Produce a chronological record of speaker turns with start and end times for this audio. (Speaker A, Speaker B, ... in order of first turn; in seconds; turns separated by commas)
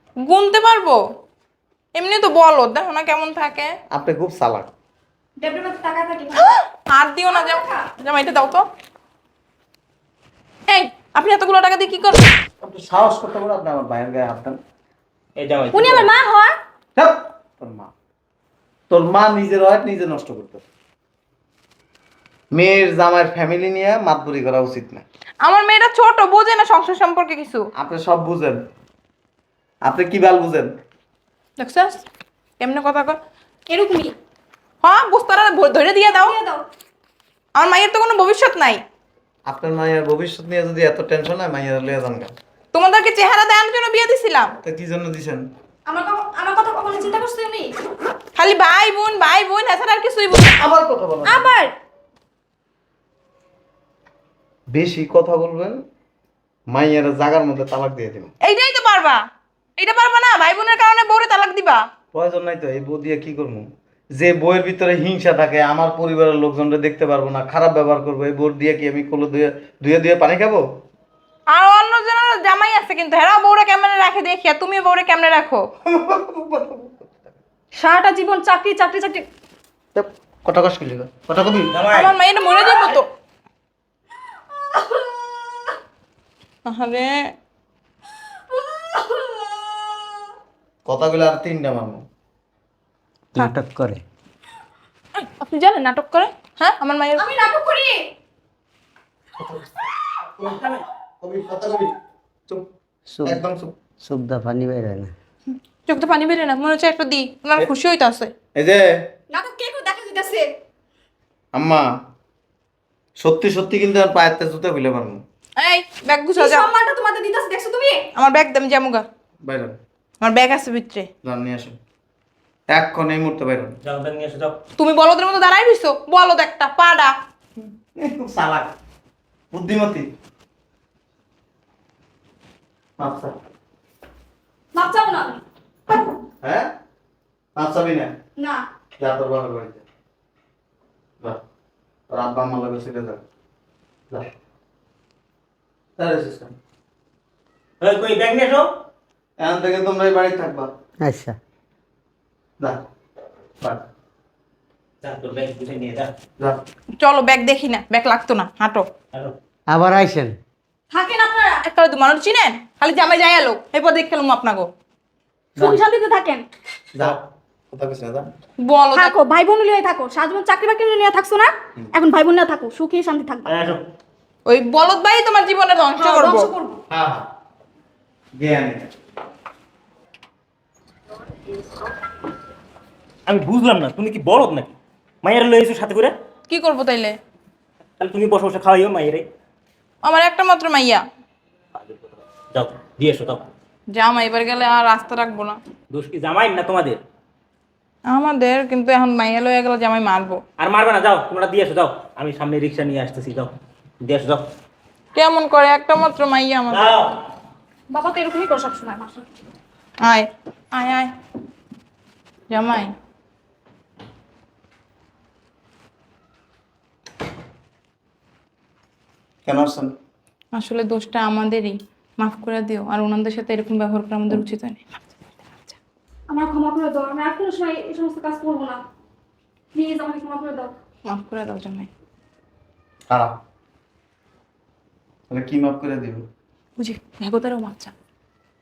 Speaker A: 0.2-1.0, Speaker A: 1.9-3.7, Speaker B: 3.9-4.7, Speaker C: 5.4-6.5, Speaker A: 6.7-8.7, Speaker C: 7.3-7.9, Speaker A: 10.7-12.3, Speaker B: 12.6-14.6, Speaker D: 15.4-16.1, Speaker C: 15.7-16.6, Speaker B: 17.0-17.9, Speaker B: 18.9-20.6, Speaker B: 22.5-25.0, Speaker A: 25.4-27.7, Speaker B: 27.8-28.6, Speaker B: 29.8-30.7, Speaker A: 31.6-32.0, Speaker A: 32.6-33.2, Speaker C: 33.7-34.1, Speaker A: 34.8-36.4, Speaker C: 36.1-36.6, Speaker A: 37.6-38.8, Speaker B: 39.5-42.3, Speaker A: 42.7-44.6, Speaker B: 44.6-45.5, Speaker C: 45.9-47.7, Speaker A: 48.4-50.6, Speaker B: 50.6-51.5, Speaker C: 51.2-51.7, Speaker B: 54.7-55.8, Speaker B: 56.7-58.3, Speaker A: 58.4-59.2, Speaker A: 59.8-61.9, Speaker B: 62.1-70.6, Speaker A: 71.5-75.7, Speaker B: 75.9-77.4, Speaker C: 77.7-79.3, Speaker B: 80.0-81.7, Speaker D: 81.7-82.1, Speaker A: 81.9-83.1, Speaker D: 82.7-83.0, Speaker C: 84.5-85.8, Speaker A: 86.7-87.3, Speaker C: 88.3-90.2, Speaker B: 90.8-92.0, Speaker E: 93.3-94.0, Speaker A: 95.2-97.4, Speaker C: 97.2-98.1, Speaker B: 99.4-102.0, Speaker E: 103.1-103.4, Speaker B: 103.2-103.7, Speaker E: 104.0-105.1, Speaker A: 105.9-108.3, Speaker B: 108.5-108.9, Speaker C: 109.3-110.5, Speaker B: 111.5-111.9, Speaker B: 113.2-115.2, Speaker A: 115.6-116.7, Speaker C: 116.4-118.1, Speaker A: 118.1-119.0, Speaker B: 119.4-119.8, Speaker A: 120.2-121.1, Speaker B: 121.2-121.8, Speaker B: 122.7-123.8, Speaker D: 123.8-124.6, Speaker A: 124.8-127.1, Speaker B: 128.0-128.7, Speaker B: 129.5-130.1, Speaker B: 133.0-133.3, Speaker C: 134.7-135.4, Speaker B: 136.4-136.7, Speaker B: 137.6-138.1, Speaker C: 138.4-138.7, Speaker B: 139.0-139.8, Speaker B: 142.1-143.2, Speaker B: 146.0-146.5, Speaker D: 147.8-148.7, Speaker B: 149.4-150.7, Speaker E: 151.0-151.4, Speaker D: 155.0-156.1, Speaker A: 157.0-158.8, Speaker E: 159.7-160.3, Speaker C: 160.9-161.6, Speaker A: 161.6-164.7, Speaker C: 165.6-166.5, Speaker B: 166.9-168.3, Speaker A: 168.6-169.2, Speaker C: 168.9-173.6, Speaker D: 173.5-173.8, Speaker A: 174.5-176.5, Speaker C: 176.0-176.8, Speaker B: 176.9-177.3, Speaker B: 178.3-178.9, Speaker D: 183.3-186.2, Speaker A: 186.5-187.2, Speaker D: 188.0-189.3, Speaker A: 190.0-191.0, Speaker D: 191.8-193.4, Speaker A: 193.9-195.6, Speaker D: 195.9-197.0, Speaker A: 198.1-200.4, Speaker D: 200.6-204.5, Speaker A: 205.2-206.9, Speaker D: 206.7-207.2, Speaker C: 207.9-209.3, Speaker A: 210.0-211.1, Speaker A: 212.5-212.9, Speaker B: 219.5-219.9, Speaker A: 220.5-225.0, Speaker C: 226.3-228.8, Speaker C: 229.7-230.7, Speaker A: 231.1-231.9, Speaker B: 235.3-236.3, Speaker A: 236.8-237.9